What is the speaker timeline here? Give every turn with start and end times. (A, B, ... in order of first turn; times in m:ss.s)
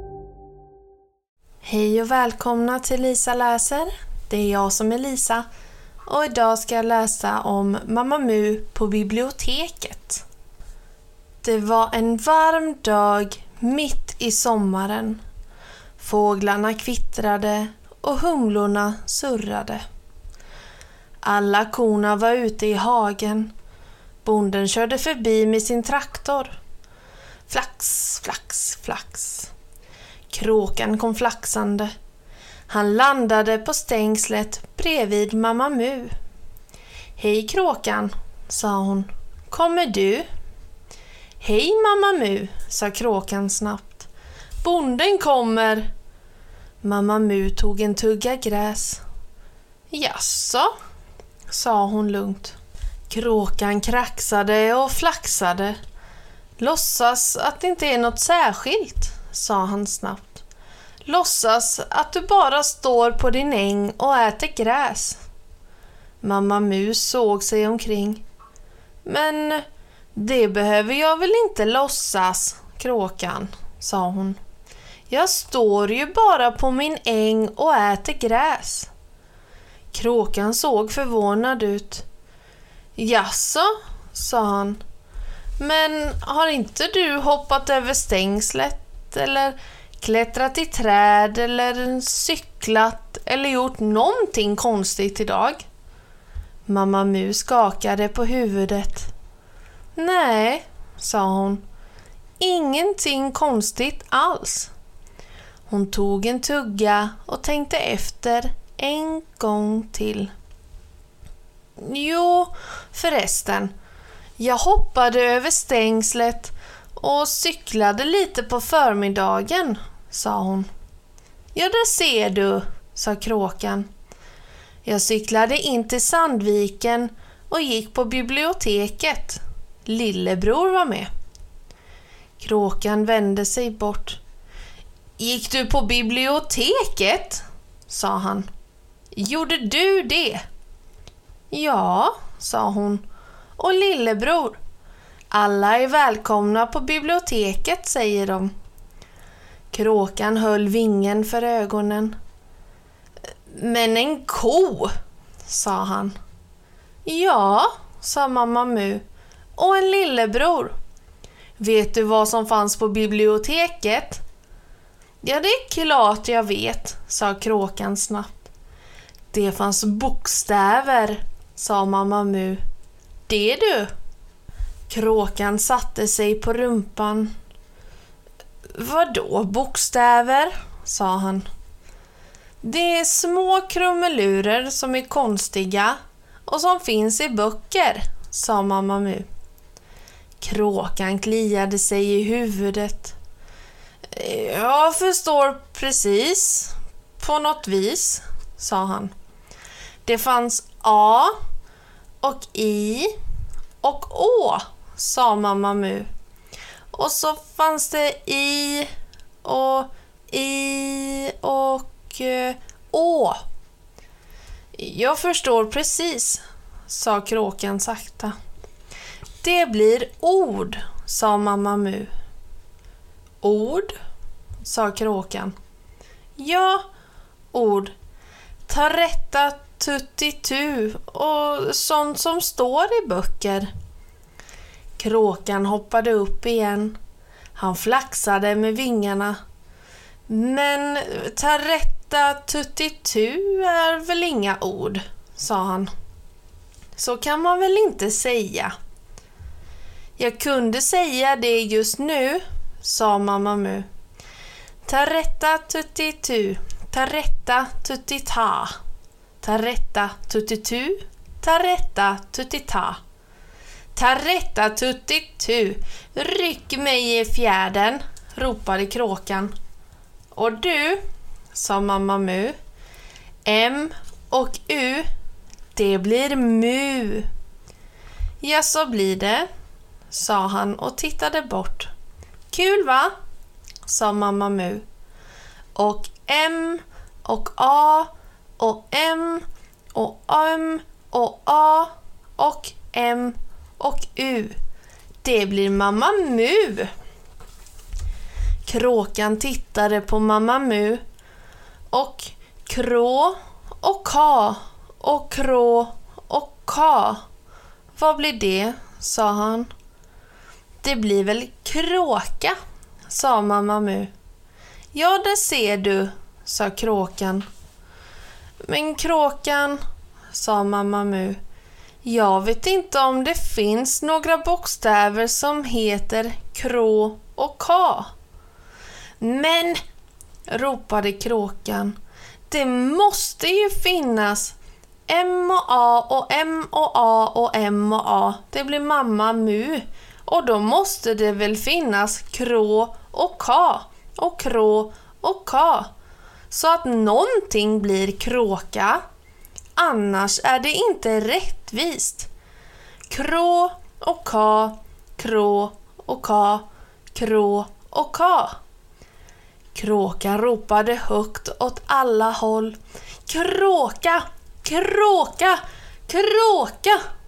0:01.6-0:05.4 A
0:06.1-0:10.2 A
0:11.4-0:15.2 A
0:16.0-0:19.8 A
0:21.2-0:23.5 A
0:24.2-0:26.5 A
0:27.5-0:29.5 A
0:30.3-0:31.9 A
0:32.7-0:36.2 A
0:37.2-0:40.3 A
0:41.4-0:44.1 A
0:44.6-0:45.9 A
0:46.8-0:49.0 A
0:49.9-0:50.7 A
0:51.5-0:52.6 A
0:53.1-0:55.8 A
0:56.6-1:00.4 A
1:01.0-1:05.2 A
1:06.2-1:08.2 A
1:09.0-1:09.6 A
1:10.2-1:14.4 A
1:15.1-1:18.9 A
1:19.9-1:22.1 A
1:23.0-1:24.8 A
1:25.6-1:35.7 A
1:36.7-1:39.1 A
1:40.0-1:41.6 A
1:42.4-1:44.7 A
1:45.7-1:50.3 A
1:51.8-1:53.7 A
1:54.4-2:00.7 A
2:01.5-2:03.9 A
2:04.8-2:11.1 A
2:12.4-2:14.2 A
2:15.2-2:18.5 A
2:19.1-2:20.4 A
2:21.5-2:23.0 A
2:23.6-2:24.6 A
2:25.3-2:28.5 A
2:29.7-2:32.2 A
2:33.5-2:34.9 A
2:35.5-2:36.2 A
2:37.0-2:39.0 A
2:39.6-2:40.8 A
2:41.6-2:44.2 A
2:45.2-2:48.5 A
2:49.3-2:52.6 A
2:53.3-2:53.9 A
2:54.9-2:57.3 A
2:58.7-3:01.5 A
3:02.6-3:09.3 A
3:10.4-3:13.2 A
3:14.1-3:19.1 A
3:20.0-3:21.3 A
3:22.2-3:23.1 A
3:23.8-3:26.1 A
3:26.9-3:28.9 A
3:29.4-3:33.4 A
3:34.8-3:38.3 A
3:39.4-3:42.1 A
3:43.4-3:44.0 A
3:44.6-3:45.6 A
3:46.4-3:46.9 A
3:47.5-3:47.9 A
3:48.7-3:53.7 A
3:55.0-3:57.0 A
3:57.6-3:59.4 A
4:00.3-4:05.9 A
4:07.0-4:08.7 A
4:10.2-4:13.9 A
4:14.8-4:18.8 A
4:19.4-4:23.0 A
4:23.9-4:29.5 A
4:30.3-4:32.6 A
4:33.4-4:35.1 A
4:35.7-4:37.3 A
4:38.4-4:39.5 A
4:40.1-4:41.9 A
4:42.5-4:43.1 A
4:43.9-4:44.8 A
4:45.8-4:54.6 A
4:55.2-4:56.9 A
4:58.6-5:01.0 A
5:01.9-5:07.2 A
5:08.0-5:09.7 A
5:10.8-5:12.6 A
5:13.1-5:14.1 A
5:14.9-5:17.5 A
5:18.7-5:19.8 A
5:20.3-5:21.4 A
5:22.0-5:28.1 A
5:29.2-5:29.8 A
5:30.5-5:32.0 A
5:32.5-5:34.6 A
5:35.1-5:45.9 A
5:46.5-5:49.0 A
5:49.8-5:52.3 A
5:53.1-5:58.6 A
5:59.8-6:07.0 A